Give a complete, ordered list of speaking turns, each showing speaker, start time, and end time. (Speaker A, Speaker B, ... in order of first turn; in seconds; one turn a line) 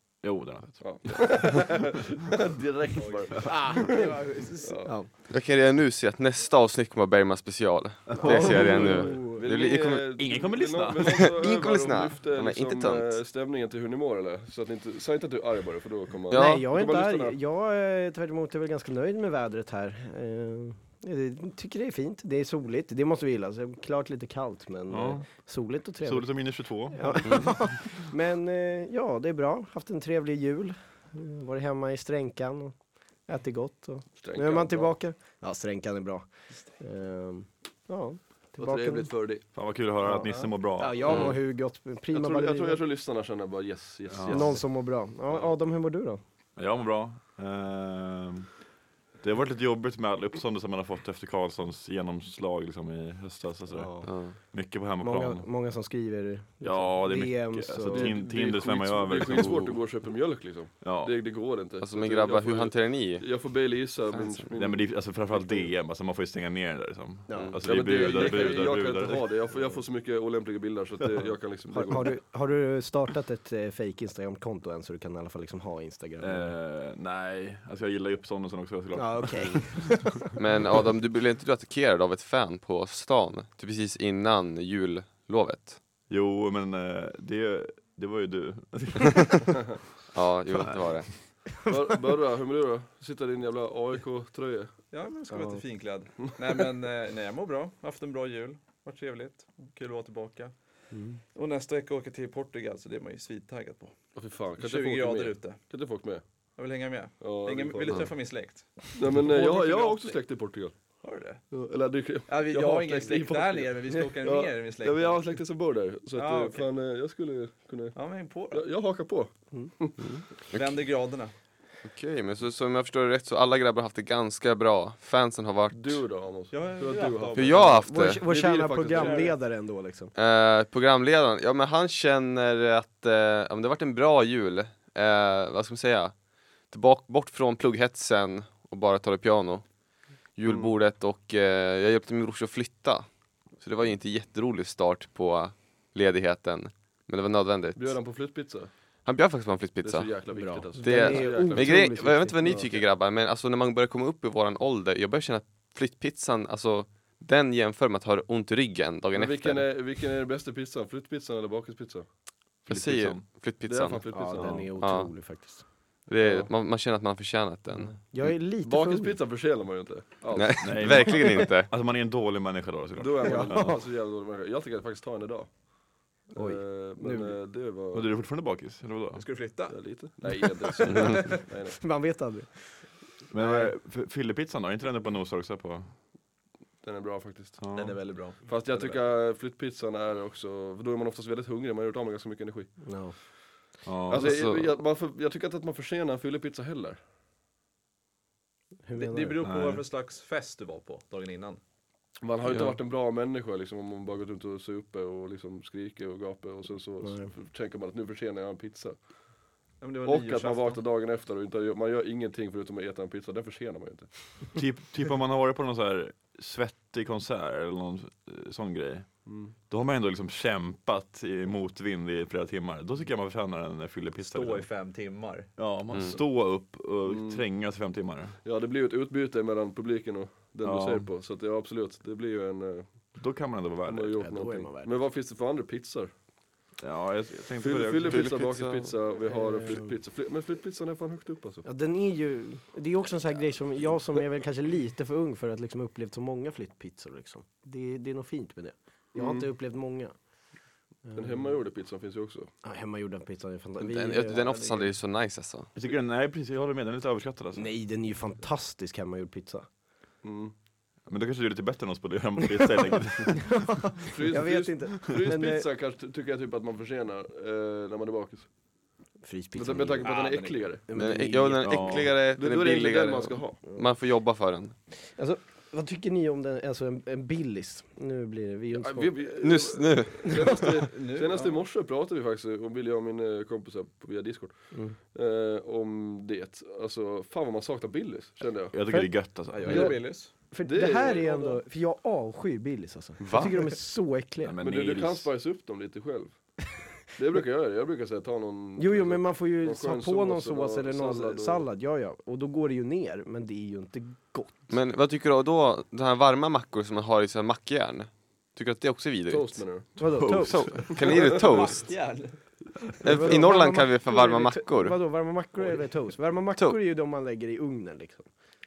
Speaker A: 0.2-1.3
Speaker B: 0.8-5.0
Speaker C: 2.9-3.6
Speaker D: 3.4-5.1
Speaker E: 5.3-10.1
Speaker A: 8.1-8.9
Speaker D: 8.2-9.4
Speaker B: 8.3-17.4
Speaker A: 10.2-11.4
Speaker E: 11.3-13.2
Speaker E: 16.3-16.6
Speaker D: 16.3-39.1
Speaker A: 24.9-25.3
Speaker A: 26.0-27.8
Speaker B: 34.2-35.0
Speaker B: 38.6-39.5
Speaker A: 39.5-41.3
Speaker D: 40.0-42.8
Speaker C: 40.2-40.5
Speaker E: 41.1-41.4
Speaker B: 42.1-44.7
Speaker A: 44.1-44.6
Speaker D: 44.3-46.2
Speaker A: 46.5-48.6
Speaker A: 49.2-55.5
Speaker D: 53.7-54.5
Speaker E: 54.0-54.4
Speaker D: 55.0-58.2
Speaker A: 56.6-59.8
Speaker B: 57.9-65.7
Speaker A: 60.8-61.1
Speaker E: 61.8-63.4
Speaker E: 64.1-64.4
Speaker A: 64.5-69.3
Speaker D: 67.3-67.6
Speaker E: 67.3-67.7
Speaker B: 67.6-72.2
Speaker D: 71.7-76.5
Speaker A: 76.2-80.1
Speaker D: 78.9-80.3
Speaker E: 80.3-85.8
Speaker A: 86.1-89.8
Speaker E: 90.1-91.1
Speaker D: 91.6-91.9
Speaker B: 91.6-94.7
Speaker C: 94.9-100.5
Speaker D: 95.3-95.6
Speaker D: 100.9-101.2
Speaker C: 101.3-104.0
Speaker B: 104.1-106.2
Speaker C: 104.6-105.7
Speaker C: 106.6-110.2
Speaker B: 107.2-108.1
Speaker B: 109.0-110.8
Speaker C: 111.0-111.5
Speaker B: 111.5-118.0
Speaker C: 112.3-115.3
Speaker C: 116.1-116.7
Speaker C: 117.9-118.7
Speaker B: 118.5-120.0
Speaker E: 120.0-120.7
Speaker C: 120.5-121.3
Speaker E: 121.8-126.0
Speaker B: 125.7-129.3
Speaker C: 126.5-127.8
Speaker E: 127.3-128.2
Speaker D: 127.8-130.1
Speaker C: 128.9-129.3
Speaker E: 130.1-136.1
Speaker E: 136.7-139.6
Speaker E: 140.3-148.0
Speaker B: 140.4-140.7
Speaker B: 147.8-148.7
Speaker E: 149.0-150.2
Speaker B: 149.8-152.8
Speaker D: 150.3-152.7
Speaker E: 150.8-159.7
Speaker B: 159.1-162.1
Speaker E: 162.7-168.0
Speaker A: 162.7-163.2
Speaker B: 163.6-164.7
Speaker D: 164.1-165.6
Speaker B: 166.1-166.5
Speaker D: 167.8-169.2
Speaker B: 168.6-171.3
Speaker E: 170.3-171.7
Speaker A: 170.6-173.8
Speaker B: 173.0-175.7
Speaker D: 173.2-173.8
Speaker B: 176.3-178.1
Speaker D: 176.3-177.4
Speaker A: 177.9-179.4
Speaker C: 179.2-180.2
Speaker B: 179.7-181.9
Speaker C: 180.8-181.4
Speaker D: 180.8-183.7
Speaker A: 183.3-185.9
Speaker B: 186.8-187.7
Speaker A: 187.6-188.1
Speaker C: 187.7-189.0
Speaker B: 188.4-192.7
Speaker D: 192.8-193.2
Speaker A: 193.8-194.3
Speaker B: 194.1-197.0
Speaker E: 194.1-194.7
Speaker D: 198.8-199.4
Speaker C: 198.9-201.6
Speaker A: 199.4-199.8
Speaker B: 202.2-209.0
Speaker E: 202.4-202.8
Speaker D: 207.0-207.3
Speaker C: 209.8-210.8
Speaker B: 210.0-214.5
Speaker A: 214.5-219.1
Speaker B: 219.2-219.5
Speaker A: 219.7-224.7
Speaker C: 224.2-225.5
Speaker A: 225.6-228.3
Speaker E: 225.9-226.2
Speaker B: 227.0-227.4
Speaker B: 228.4-233.1
Speaker A: 230.6-231.1
Speaker A: 233.2-234.2
Speaker B: 233.9-236.1
Speaker D: 234.2-234.9
Speaker A: 236.8-238.6
Speaker B: 237.6-241.7
Speaker E: 238.1-238.9
Speaker D: 239.2-240.0
Speaker D: 241.6-250.1
Speaker B: 249.1-249.5
Speaker D: 251.1-251.6
Speaker B: 251.1-252.5
Speaker D: 252.6-254.9
Speaker E: 253.8-255.7
Speaker A: 255.7-257.7
Speaker D: 257.5-259.7
Speaker B: 260.2-260.5
Speaker A: 261.1-263.9
Speaker D: 263.5-265.7
Speaker B: 264.1-268.5
Speaker D: 269.2-270.1
Speaker B: 269.5-270.9
Speaker C: 270.0-270.8
Speaker D: 270.9-271.9
Speaker E: 270.9-274.7
Speaker A: 271.6-272.2
Speaker B: 272.3-273.6
Speaker D: 275.1-279.4
Speaker B: 278.7-288.8
Speaker E: 279.4-280.6
Speaker D: 280.2-280.8
Speaker C: 280.9-281.6
Speaker D: 284.7-285.0
Speaker A: 288.7-290.0
Speaker D: 288.9-294.6
Speaker C: 289.5-290.3
Speaker B: 290.6-291.6
Speaker E: 293.2-293.8
Speaker A: 294.4-295.3
Speaker B: 294.6-301.7
Speaker D: 298.8-304.7
Speaker E: 304.7-312.0
Speaker B: 309.3-310.0
Speaker D: 310.0-310.9
Speaker A: 310.0-310.8
Speaker B: 310.9-311.3
Speaker C: 311.1-312.7
Speaker E: 313.0-315.0
Speaker D: 313.0-318.3